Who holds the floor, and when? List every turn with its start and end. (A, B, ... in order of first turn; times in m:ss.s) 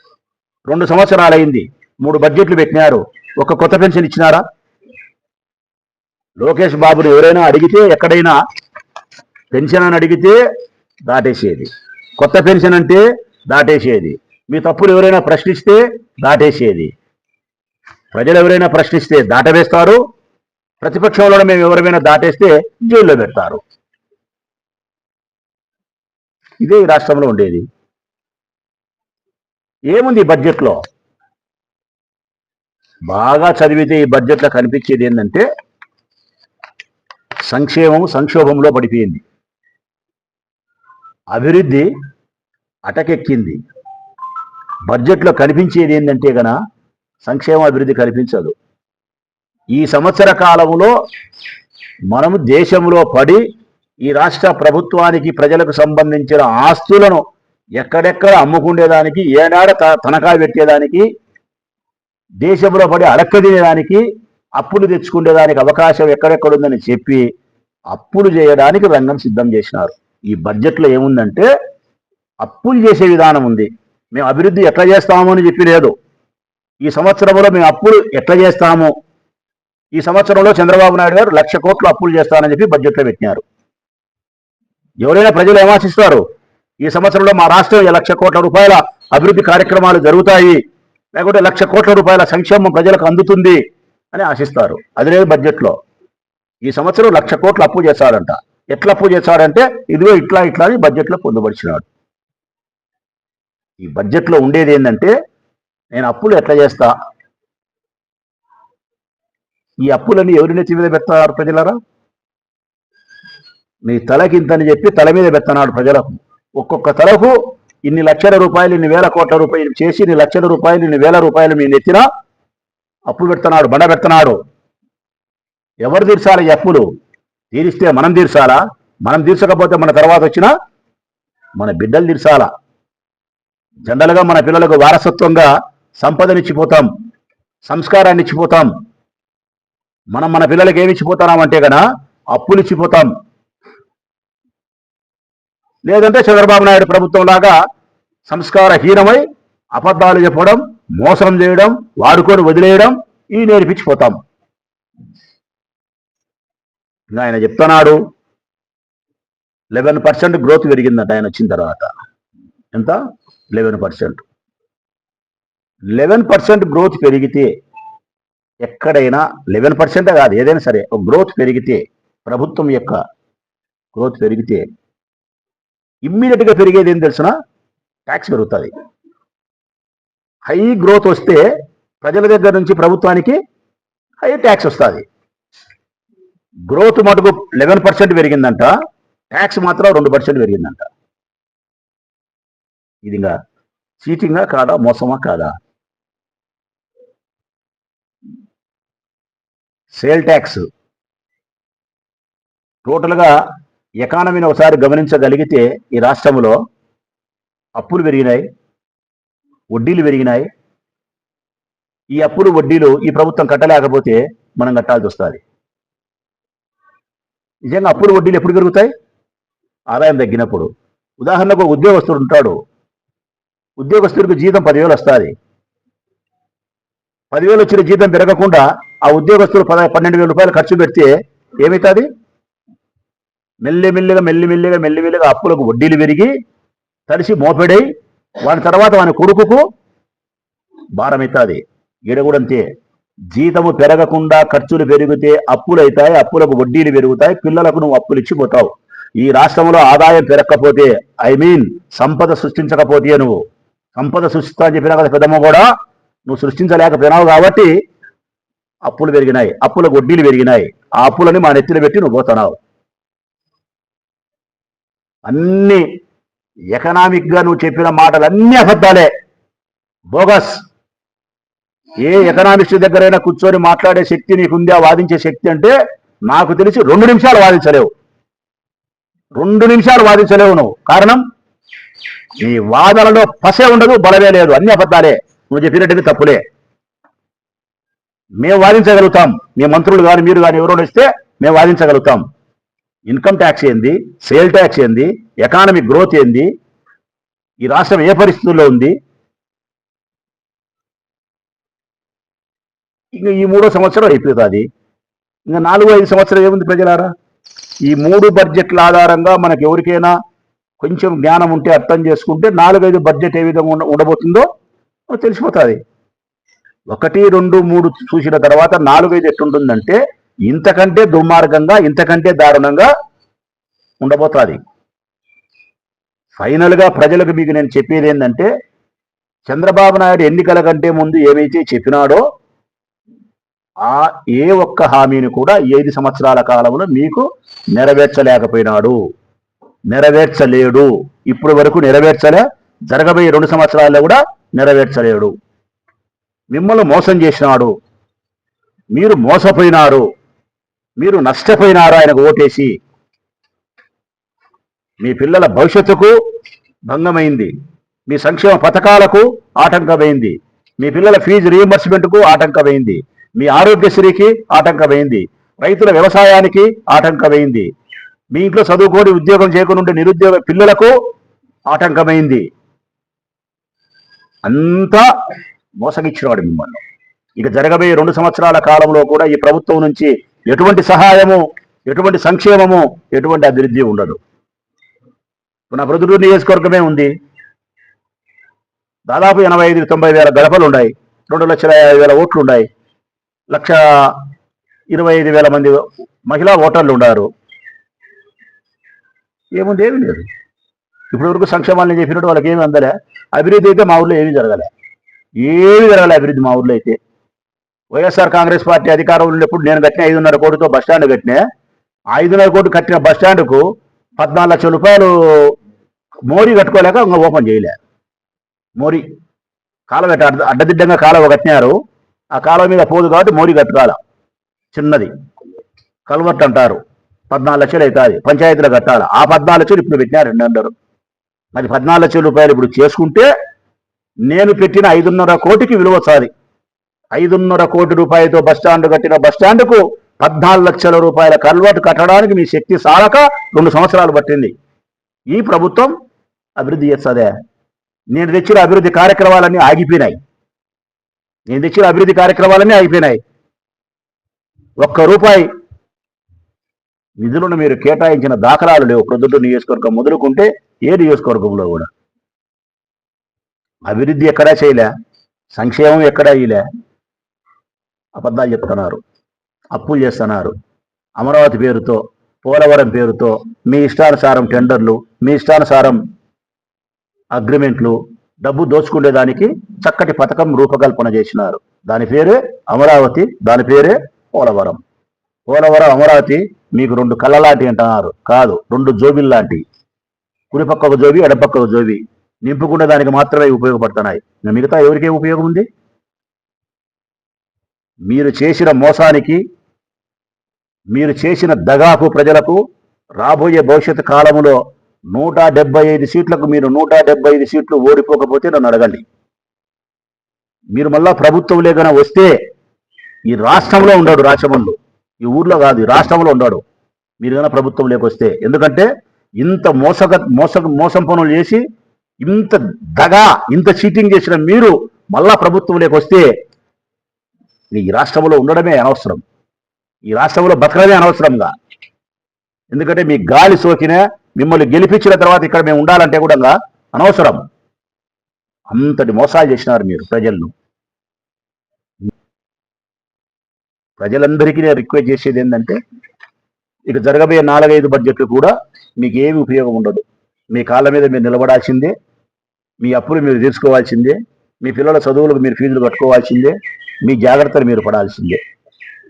0:00.7-0:04.4 A
0:06.4-0:08.4 A
0:09.5-0:10.4 A
0:11.1-0:16.9 A
0:18.1-0:20.0 A
0:20.8-0:23.6 A
0:26.6-0:27.7 A
0:29.9-0:30.8 A
0:33.1-0:35.4 A
0:37.5-0:39.2 A
0:41.3-0:41.9 A
0:42.8-0:43.6 A
0:44.9-0:46.6 A
0:47.2-0:48.5 A
0:49.7-0:50.9 A
0:52.1-0:53.4 A
0:54.0-0:57.2 A
0:57.8-1:01.1 A
1:02.4-1:04.0 A
1:04.6-1:07.2 A
1:07.9-1:11.5 A
1:12.4-1:15.9 A
1:16.8-1:18.9 A
1:19.9-1:23.4 A
1:25.0-1:26.2 A
1:26.8-1:30.6 A
1:31.2-1:33.6 A
1:34.1-1:35.8 A
1:36.6-1:41.8 A
1:43.8-1:45.1 A
1:45.9-1:46.9 A
1:49.8-1:51.8 A
1:53.8-2:02.0 A
2:03.1-2:04.4 A
2:05.8-2:06.8 A
2:07.5-2:10.5 A
2:11.6-2:12.5 A
2:13.9-2:16.9 A
2:17.7-2:18.7 A
2:20.1-2:21.8 A
2:22.3-2:23.1 A
2:25.8-2:27.6 A
2:28.3-2:34.2 A
2:37.1-2:38.0 A
2:39.7-2:41.9 A
2:42.7-2:43.0 A
2:43.5-2:44.2 A
2:45.9-2:47.5 A
2:48.6-2:53.0 A
2:53.9-2:54.7 A
2:56.0-2:57.3 A
2:58.1-2:58.7 A
3:00.5-3:01.4 A
3:02.0-3:03.4 A
3:04.2-3:05.0 A
3:06.7-3:08.7 A
3:09.3-3:10.9 A
3:13.0-3:13.3 A
3:14.0-3:15.5 A
3:19.9-3:20.7 A
3:22.8-3:23.3 A
3:24.0-3:26.6 A
3:27.8-3:28.4 A
3:29.7-3:30.5 A
3:32.1-3:35.4 A
3:37.7-3:38.9 A
3:39.9-3:40.7 A
3:41.2-3:42.6 A
3:43.8-3:45.3 A
3:47.3-3:51.1 A
3:51.6-3:52.1 A
3:53.6-3:56.3 A
3:57.1-3:57.8 A
3:58.4-3:59.7 A
4:01.0-4:02.7 A
4:03.3-4:13.4 A
4:14.0-4:15.7 A
4:16.3-4:17.7 A
4:18.9-4:22.6 A
4:25.2-4:25.8 A
4:26.7-4:29.1 A
4:30.1-4:30.6 A
4:32.0-4:35.8 A
4:36.3-4:37.9 A
4:39.4-4:41.2 A
4:42.4-4:46.4 A
4:48.4-4:52.2 A
4:53.1-4:56.5 A
4:57.6-4:59.0 A
5:03.1-5:04.7 A
5:05.5-5:07.1 A
5:07.8-5:10.1 A
5:10.8-5:14.5 A
5:15.1-5:15.8 A
5:16.9-5:22.9 A
5:24.0-5:24.6 A
5:26.4-5:28.5 A
5:29.5-5:32.2 A
5:33.8-5:39.0 A
5:39.9-5:45.3 A
5:46.5-5:47.7 A
5:48.9-5:50.0 A
5:51.0-5:52.7 A
5:55.0-5:56.1 A
5:56.9-5:57.5 A
5:58.1-6:07.7 A
6:08.3-6:10.9 A
6:11.7-6:12.4 A
6:14.4-6:15.0 A
6:15.8-6:16.8 A
6:17.4-6:24.2 A
6:25.7-6:27.1 A
6:29.1-6:32.7 A
6:33.5-6:34.2 A
6:34.9-6:37.3 A
6:39.5-6:40.3 A
6:41.1-6:44.7 A
6:45.4-6:47.0 A
6:47.9-6:51.4 A
6:52.1-6:53.6 A
6:54.2-6:55.5 A
6:56.3-6:57.8 A
6:58.8-6:59.0 A
6:59.9-7:01.8 A
7:02.3-7:04.0 A
7:04.7-7:05.1 A
7:06.1-7:10.7 A
7:11.5-7:13.3 A
7:14.3-7:16.3 A
7:17.1-7:24.5 A
7:25.3-7:25.9 A
7:26.6-7:27.3 A
7:28.1-7:30.2 A
7:31.5-7:33.2 A
7:34.8-7:35.5 A
7:37.2-7:41.9 A
7:43.9-7:44.9 A
7:45.6-7:46.6 A
7:48.2-7:49.0 A
7:49.7-7:50.5 A
7:51.2-7:56.0 A
7:57.3-8:04.8 A
8:05.5-8:09.6 A
8:10.5-8:15.7 A
8:18.1-8:19.4 A
8:20.9-8:22.6 A
8:23.2-8:24.6 A
8:25.1-8:29.0 A
8:30.8-8:32.3 A
8:33.3-8:36.6 A
8:37.2-8:38.9 A
8:39.4-8:41.6 A
8:42.2-8:46.3 A
8:47.7-8:49.2 A
8:50.1-8:51.5 A
8:52.7-8:57.4 A
8:58.7-9:00.5 A
9:04.0-9:05.8 A
9:06.9-9:11.9 A
9:12.8-9:18.4 A